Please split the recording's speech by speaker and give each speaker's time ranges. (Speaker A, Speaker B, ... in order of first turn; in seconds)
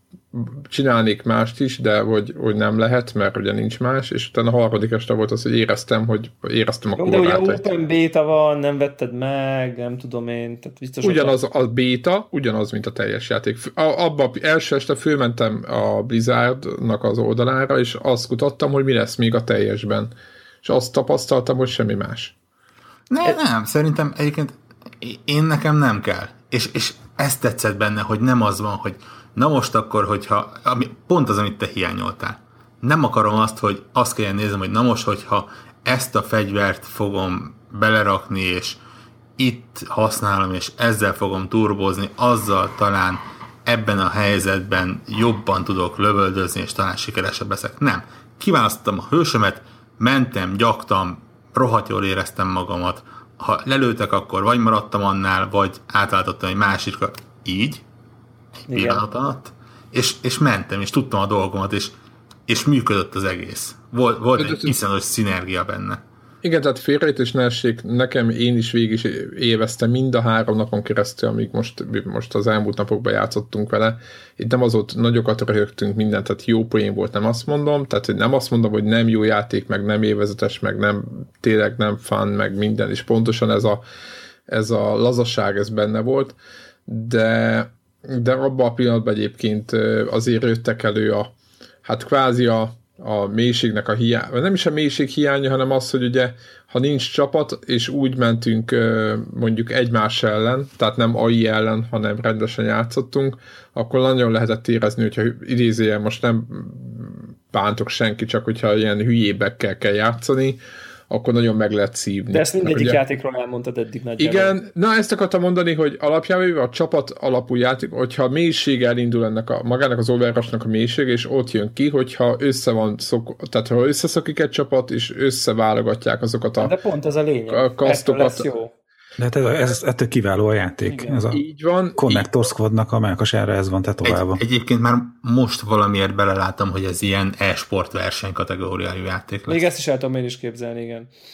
Speaker A: 0.3-7.7, 11.0-22.4, 64.4-64.8, 66.4-83.8, 84.5-86.4, 86.9-113.0, 114.2-126.8, 127.5-128.5, 131.3-132.3
Speaker B: 7.0-11.4, 58.7-59.0, 112.3-114.6, 126.6-128.7, 130.9-131.2, 139.5-141.1
Speaker C: 23.1-38.8, 39.4-57.8, 58.7-61.9, 62.5-66.0, 134.1-139.6
Speaker D: 129.2-131.4, 132.0-134.4